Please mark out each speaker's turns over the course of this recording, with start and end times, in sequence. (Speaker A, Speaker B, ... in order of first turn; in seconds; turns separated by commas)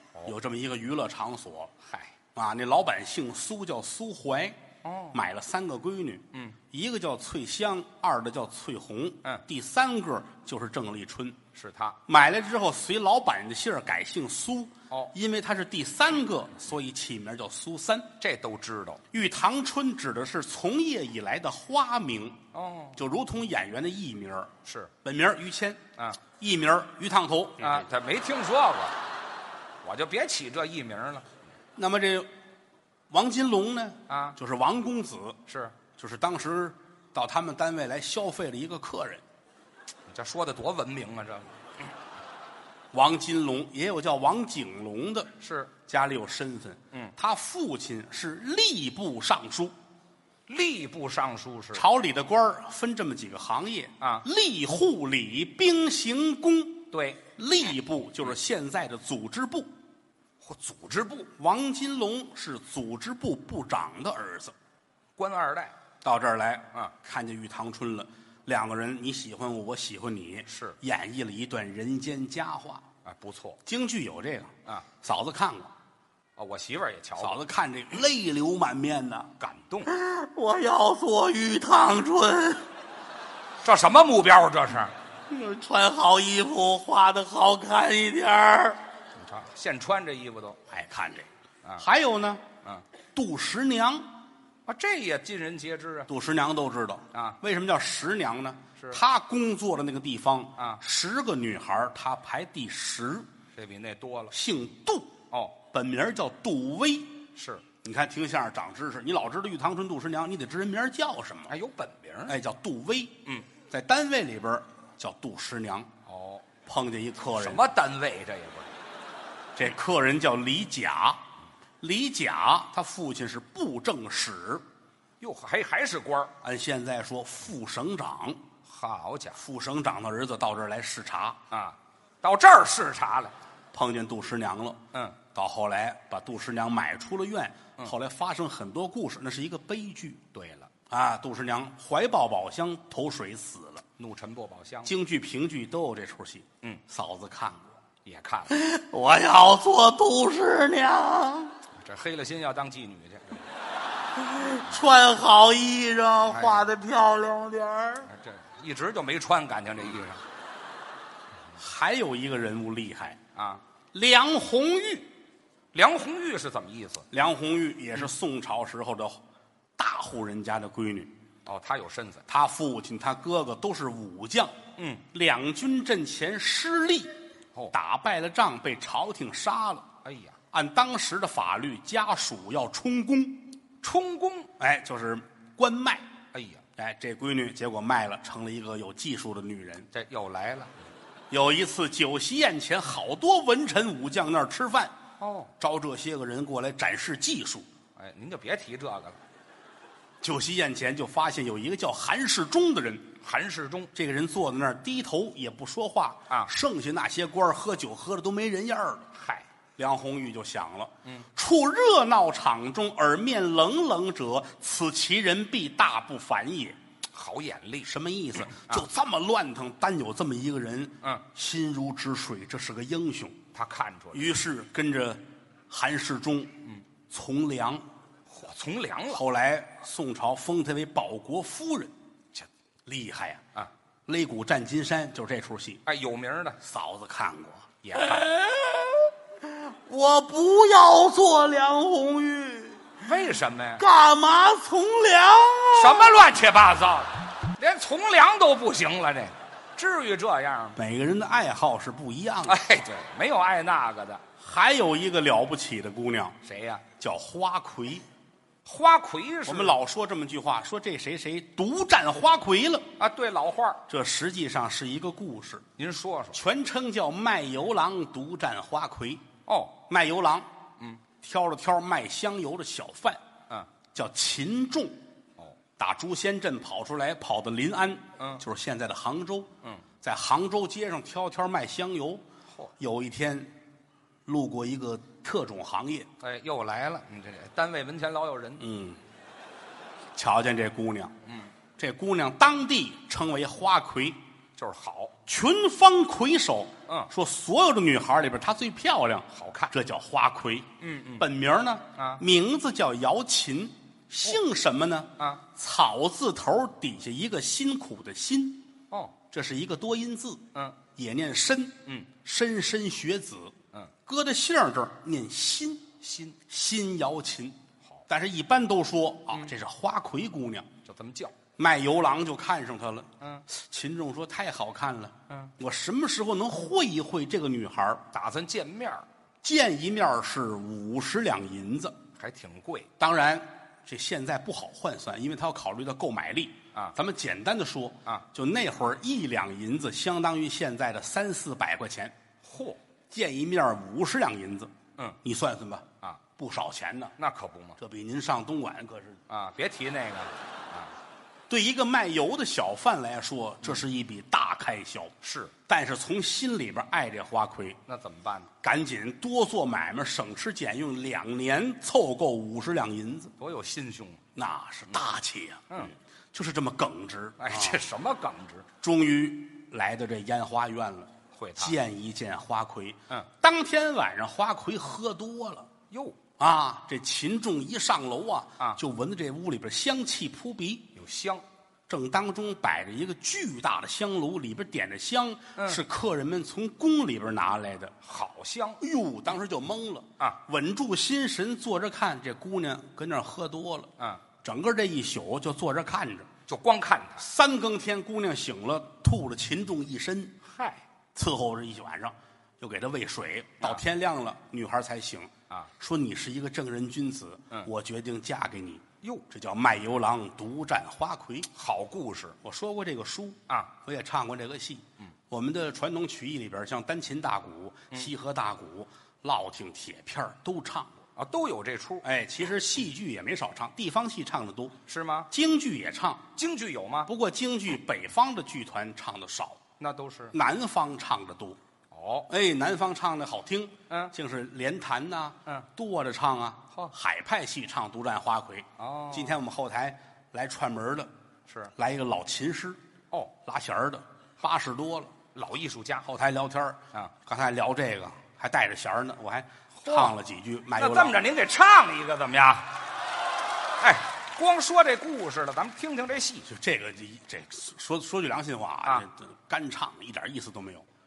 Speaker A: 0.2-1.7, Speaker B: 1.8-2.1, Speaker A: 2.3-4.6, Speaker B: 4.8-5.2, Speaker A: 5.1-11.4, Speaker B: 11.5-12.0, Speaker A: 12.1-18.1, Speaker B: 18.2-19.0, Speaker A: 19.1-22.4, Speaker B: 22.5-23.0, Speaker A: 22.9-24.5, Speaker B: 24.6-24.9, Speaker A: 25.0-27.9, Speaker B: 27.6-28.9, Speaker B: 29.8-31.3, Speaker A: 31.8-32.3, Speaker A: 33.1-35.4, Speaker B: 34.1-34.4, Speaker B: 35.5-35.7, Speaker A: 35.9-39.2, Speaker B: 40.1-41.5, Speaker A: 42.9-49.7, Speaker B: 45.4-45.7, Speaker B: 50.5-51.8, Speaker A: 51.7-59.7, Speaker B: 56.9-57.2, Speaker B: 60.4-61.3, Speaker A: 61.4-64.5, Speaker B: 65.2-65.7, Speaker A: 66.0-72.8, Speaker B: 70.5-70.8, Speaker B: 73.0-73.6, Speaker A: 73.7-75.7, Speaker B: 76.4-77.4, Speaker A: 77.2-79.3, Speaker B: 79.4-79.9, Speaker A: 79.8-82.7, Speaker B: 83.6-84.9, Speaker A: 85.3-88.8, Speaker B: 89.2-90.6, Speaker A: 90.7-91.3, Speaker A: 91.8-92.4, Speaker A: 93.1-94.1, Speaker B: 94.7-96.1, Speaker A: 96.1-103.3, Speaker B: 97.1-97.4, Speaker B: 103.5-104.3, Speaker A: 104.3-107.2, Speaker B: 105.3-105.6, Speaker B: 107.3-107.6, Speaker A: 107.8-111.5, Speaker B: 111.5-112.4, Speaker A: 112.3-115.9, Speaker B: 116.0-116.5, Speaker A: 116.7-117.6, Speaker B: 117.4-118.7, Speaker A: 119.5-121.2, Speaker A: 121.8-124.6, Speaker B: 125.2-126.3, Speaker A: 126.4-128.4, Speaker B: 128.6-129.4, Speaker A: 129.4-131.4, Speaker B: 131.5-133.3, Speaker A: 133.7-140.2, Speaker B: 140.3-140.7, Speaker A: 140.9-143.8, Speaker B: 144.0-144.9, Speaker A: 144.8-147.7, Speaker B: 148.0-148.6, Speaker A: 148.5-151.5, Speaker B: 151.7-153.4, Speaker A: 154.2-158.1, Speaker B: 156.3-156.7, Speaker B: 158.1-160.2, Speaker A: 161.6-163.2, Speaker B: 163.3-163.6, Speaker A: 163.9-165.1, Speaker B: 165.7-167.0, Speaker A: 167.1-169.2, Speaker A: 169.8-171.1, Speaker B: 171.4-172.2, Speaker A: 172.3-174.6, Speaker B: 174.8-175.0, Speaker A: 175.1-177.1, Speaker A: 177.7-179.8, Speaker B: 180.0-180.3, Speaker A: 180.5-183.5, Speaker B: 183.8-184.5, Speaker A: 184.6-186.1, Speaker B: 186.3-186.6, Speaker A: 186.8-189.9, Speaker B: 189.9-190.7, Speaker A: 191.3-194.9, Speaker B: 195.2-195.5, Speaker A: 195.6-197.7, Speaker B: 197.9-199.2, Speaker A: 200.2-203.1, Speaker B: 203.2-203.9, Speaker A: 203.9-209.1, Speaker B: 209.1-209.4, Speaker A: 209.8-216.8, Speaker B: 217.1-217.9, Speaker A: 217.8-223.4, Speaker B: 218.5-218.8, Speaker B: 223.5-224.3, Speaker A: 224.1-227.8, Speaker B: 228.3-229.2, Speaker A: 229.1-231.9, Speaker A: 232.8-233.4, Speaker A: 234.1-235.8, Speaker B: 235.8-236.6, Speaker A: 236.6-242.9, Speaker B: 237.8-238.3, Speaker B: 243.0-243.8, Speaker A: 243.8-246.3, Speaker B: 245.7-250.8, Speaker A: 250.8-252.6, Speaker B: 252.5-254.2, Speaker A: 254.4-256.4, Speaker B: 256.4-256.8, Speaker A: 256.9-258.0, Speaker B: 258.6-259.8, Speaker A: 259.4-262.9, Speaker B: 263.0-263.8, Speaker A: 263.9-265.6, Speaker B: 265.8-266.4, Speaker A: 266.3-269.2, Speaker B: 269.5-269.7, Speaker A: 269.9-270.5, Speaker A: 271.2-273.2, Speaker A: 273.9-275.0, Speaker A: 275.8-279.5, Speaker A: 280.0-282.2, Speaker A: 282.8-283.5, Speaker A: 284.2-286.1, Speaker B: 286.2-288.6, Speaker A: 288.6-289.0, Speaker A: 290.1-291.1, Speaker A: 291.8-294.2, Speaker B: 294.6-295.1, Speaker A: 295.3-308.6, Speaker B: 299.3-299.7, Speaker B: 300.8-301.3, Speaker B: 301.9-302.2, Speaker A: 309.3-313.5, Speaker A: 314.1-317.6, Speaker B: 316.0-316.4, Speaker A: 318.1-320.7, Speaker B: 320.8-321.4, Speaker A: 321.6-328.0, Speaker B: 328.1-329.0, Speaker A: 329.4-331.9, Speaker B: 332.1-332.9, Speaker A: 333.0-342.1, Speaker B: 342.4-342.8, Speaker A: 343.1-344.7, Speaker A: 345.2-347.1, Speaker B: 347.2-347.8, Speaker A: 347.8-349.2, Speaker B: 349.3-350.9, Speaker A: 351.5-355.1, Speaker B: 355.2-355.5, Speaker A: 355.7-357.8, Speaker B: 357.9-358.5, Speaker A: 358.6-363.3, Speaker B: 363.4-364.2, Speaker A: 364.3-367.8, Speaker B: 365.7-365.9, Speaker B: 367.4-368.6, Speaker A: 368.8-375.7, Speaker B: 371.3-371.8, Speaker B: 375.9-376.2, Speaker A: 376.4-380.9, Speaker B: 380.9-381.4, Speaker A: 381.9-387.9, Speaker B: 385.6-385.8, Speaker B: 388.0-388.8, Speaker A: 388.8-396.3, Speaker B: 396.5-397.2, Speaker A: 397.2-400.4, Speaker B: 400.4-400.8, Speaker A: 401.1-411.5, Speaker B: 411.5-412.4, Speaker A: 412.4-420.9, Speaker B: 421.1-422.0, Speaker A: 422.0-424.8, Speaker B: 424.9-425.3, Speaker A: 425.3-426.2, Speaker B: 426.4-427.1, Speaker A: 427.1-429.6, Speaker B: 429.8-430.3, Speaker A: 430.3-431.6, Speaker B: 431.9-432.3, Speaker A: 432.3-441.1, Speaker B: 438.8-439.4, Speaker A: 441.7-442.8, Speaker A: 443.4-445.1, Speaker B: 445.3-446.1, Speaker A: 446.0-451.2, Speaker B: 449.8-450.1, Speaker B: 450.7-452.7, Speaker B: 453.8-456.5, Speaker A: 456.5-460.9